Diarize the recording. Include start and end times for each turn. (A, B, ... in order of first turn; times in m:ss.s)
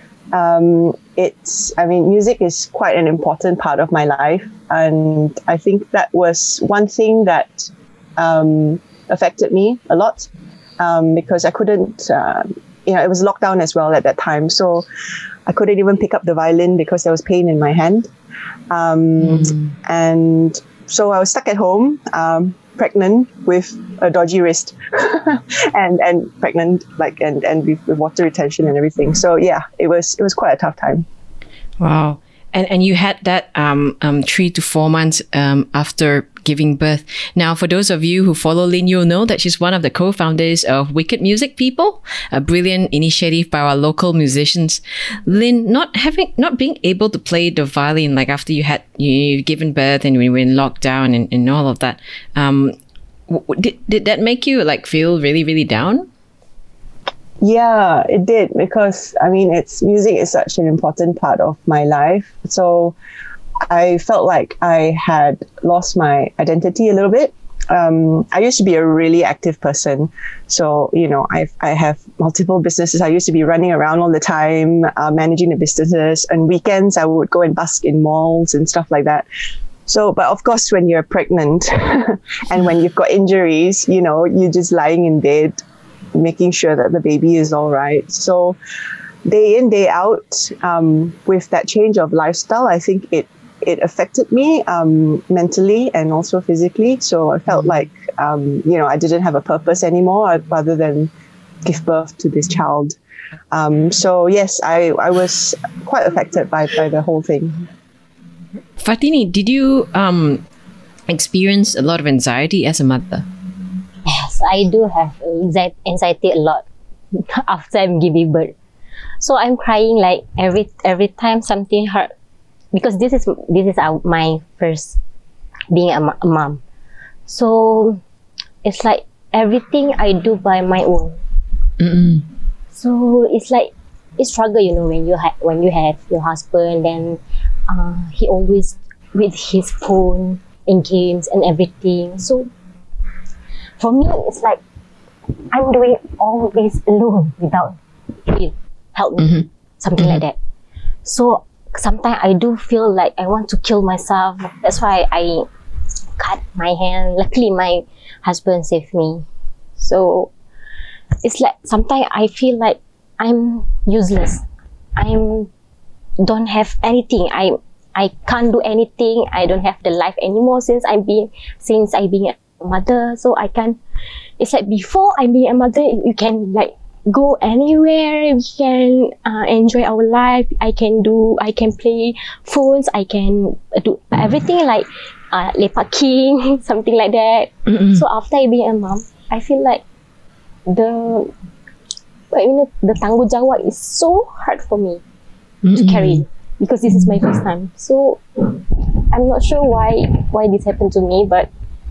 0:00.3-0:14.8 A
0:15.5-0:18.1 A
0:18.7-0:31.0 A
0:19.2-0:19.7 B
0:31.8-0:52.8 B
0:53.3-0:56.1 B
0:57.4-1:02.9 A
1:03.7-1:19.2 A
1:19.9-1:25.6 A
1:26.1-1:28.6 A
1:29.2-1:41.1 A
1:41.6-1:43.0 A
1:43.5-1:47.7 A
1:48.8-1:50.4 B
1:51.1-1:53.2 B
1:54.0-1:58.5 C
1:59.2-2:02.1 C
2:02.7-2:05.0 C
2:05.7-2:06.6 C
2:07.3-2:08.0 C
2:08.6-2:11.2 C
2:11.8-2:12.3 B
2:12.7-2:22.5 C
2:23.8-2:24.6 C
2:25.5-2:30.4 C
2:29.2-2:29.4 B
2:31.0-2:35.5 C
2:36.2-2:39.2 C
2:39.8-2:40.3 C
2:41.2-2:44.4 C
2:45.0-2:45.5 C
2:46.2-2:53.8 C
2:54.4-3:09.8 C
3:07.7-3:08.0 B
3:10.7-3:11.3 C
3:12.3-3:15.0 C
3:15.6-3:16.2 B
3:15.7-3:21.5 C